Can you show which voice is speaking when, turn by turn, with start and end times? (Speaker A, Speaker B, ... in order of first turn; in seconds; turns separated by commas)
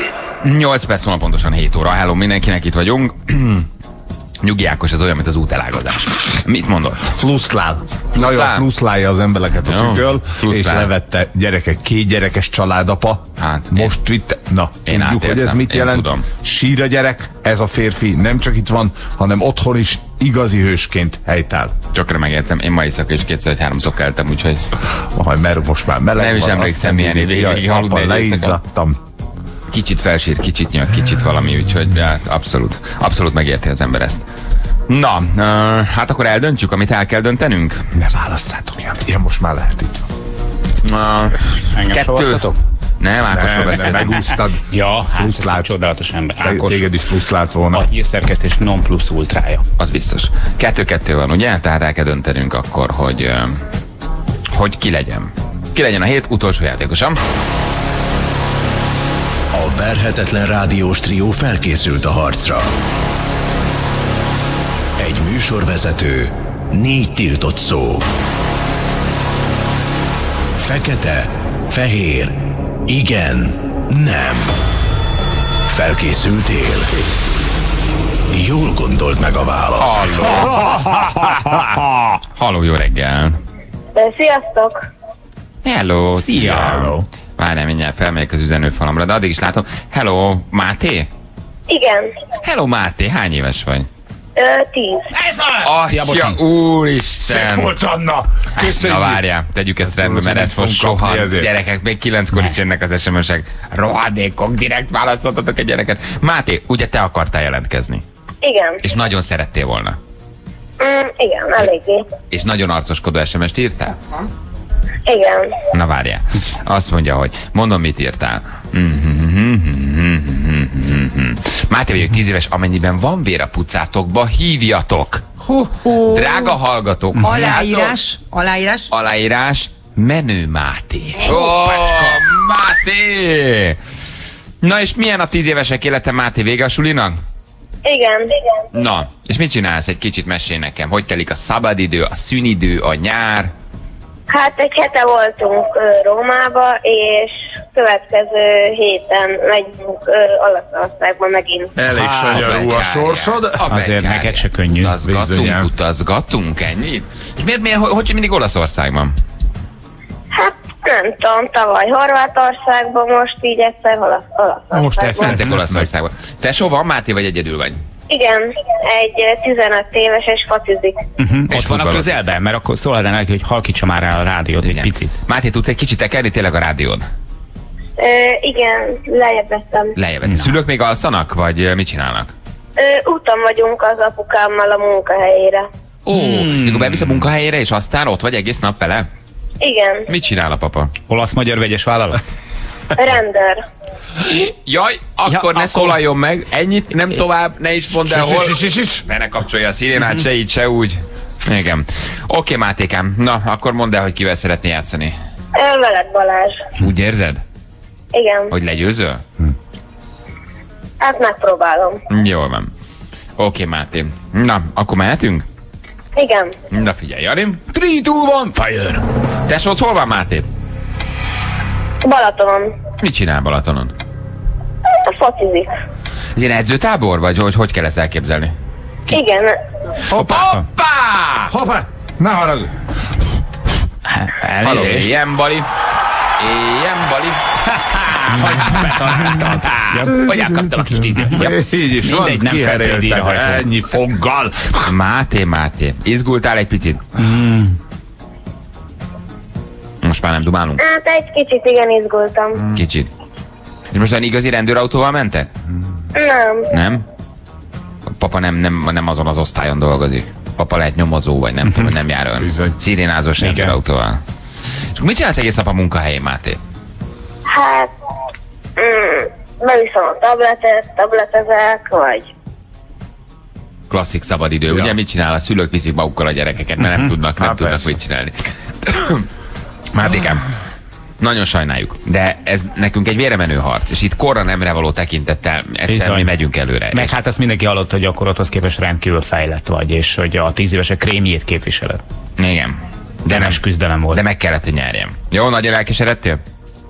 Speaker A: 0.4-3.7, Speaker A: 4.4-7.2, Speaker B: 7.1-21.7, Speaker A: 8.2-8.7, Speaker A: 9.6-10.9, Speaker A: 13.4-13.9, Speaker A: 14.8-16.2, Speaker A: 21.9-24.7, Speaker B: 25.1-29.0, Speaker A: 26.1-28.6, Speaker A: 29.7-34.2, Speaker A: 34.9-37.9, Speaker B: 37.9-40.1, Speaker A: 40.8-42.5, Speaker C: 41.7-42.6, Speaker A: 43.0-44.3, Speaker B: 43.3-45.8, Speaker C: 44.7-46.9, Speaker B: 46.4-47.9, Speaker C: 47.7-49.6, Speaker A: 49.8-53.6, Speaker A: 54.5-57.2, Speaker D: 59.5-62.7, Speaker D: 65.0-68.1, Speaker D: 70.6-74.6, Speaker D: 75.7-77.2, Speaker D: 78.3-80.4, Speaker A: 79.8-80.7, Speaker C: 80.5-82.0, Speaker A: 82.3-83.4, Speaker E: 83.9-84.8, Speaker A: 85.6-91.1, Speaker C: 86.2-87.0, Speaker E: 91.7-92.1, Speaker A: 92.4-93.9, Speaker E: 94.3-95.0, Speaker C: 95.3-96.4, Speaker A: 95.6-97.7, Speaker B: 97.2-99.2, Speaker A: 98.5-108.0, Speaker B: 99.8-101.5, Speaker E: 108.4-108.8, Speaker A: 108.8-110.0, Speaker E: 110.8-112.1, Speaker A: 112.3-114.2, Speaker E: 115.1-115.5, Speaker A: 115.7-125.2, Speaker A: 126.1-128.0, Speaker F: 127.2-128.9, Speaker A: 128.9-133.8, Speaker F: 131.2-132.2, Speaker A: 134.6-137.2, Speaker E: 137.8-138.4, Speaker A: 138.7-143.5, Speaker E: 144.3-151.7, Speaker B: 151.8-153.6, Speaker C: 151.9-152.6, Speaker A: 152.3-159.1, Speaker C: 153.7-154.9, Speaker B: 155.0-155.7, Speaker E: 160.3-165.4, Speaker B: 164.7-165.9, Speaker A: 165.2-167.8, Speaker E: 168.1-171.0, Speaker C: 171.2-175.1, Speaker A: 171.5-172.2, Speaker A: 174.6-177.0, Speaker E: 178.0-179.9, Speaker A: 179.9-182.3, Speaker C: 180.3-180.5, Speaker E: 182.8-185.7, Speaker A: 186.1-189.1, Speaker C: 186.1-187.2, Speaker E: 189.6-190.1, Speaker A: 190.1-190.9, Speaker C: 191.1-192.2, Speaker E: 192.9-193.6, Speaker A: 194.3-205.1, Speaker C: 195.3-195.9, Speaker B: 197.9-199.0, Speaker E: 205.6-206.7, Speaker A: 206.8-207.4, Speaker E: 208.1-208.5, Speaker A: 208.5-209.2, Speaker E: 211.0-212.0, Speaker A: 212.1-212.7, Speaker A: 213.4-215.4, Speaker E: 216.2-216.5, Speaker A: 216.7-217.6, Speaker C: 217.7-219.0, Speaker A: 219.4-220.4, Speaker E: 222.0-222.7, Speaker A: 223.0-223.9, Speaker E: 225.0-225.7, Speaker A: 226.3-228.5, Speaker E: 229.1-229.5, Speaker B: 230.1-230.5, Speaker A: 230.1-231.5, Speaker C: 230.2-230.6, Speaker B: 231.5-232.7, Speaker C: 234.1-235.1, Speaker A: 234.6-235.7, Speaker A: 236.4-237.6, Speaker C: 237.9-240.2, Speaker A: 238.3-241.6, Speaker B: 240.3-240.6, Speaker B: 241.3-244.9, Speaker C: 241.3-243.7, Speaker A: 244.8-247.1, Speaker C: 247.2-247.8, Speaker A: 250.0-250.8, Speaker E: 250.8-252.7, Speaker A: 252.7-253.1, Speaker A: 253.9-255.5, Speaker E: 256.1-256.7, Speaker A: 256.7-257.0, Speaker A: 258.1-264.2, Speaker B: 262.4-262.8, Speaker C: 263.4-263.8, Speaker A: 264.9-266.6, Speaker E: 267.5-267.9, Speaker E: 268.8-272.3, Speaker A: 273.9-279.2, Speaker B: 274.7-274.9, Speaker B: 277.4-277.9, Speaker A: 279.9-280.4, Speaker A: 281.2-287.1, Speaker C: 285.9-286.3, Speaker C: 286.9-292.0, Speaker A: 292.4-296.4, Speaker C: 293.3-294.2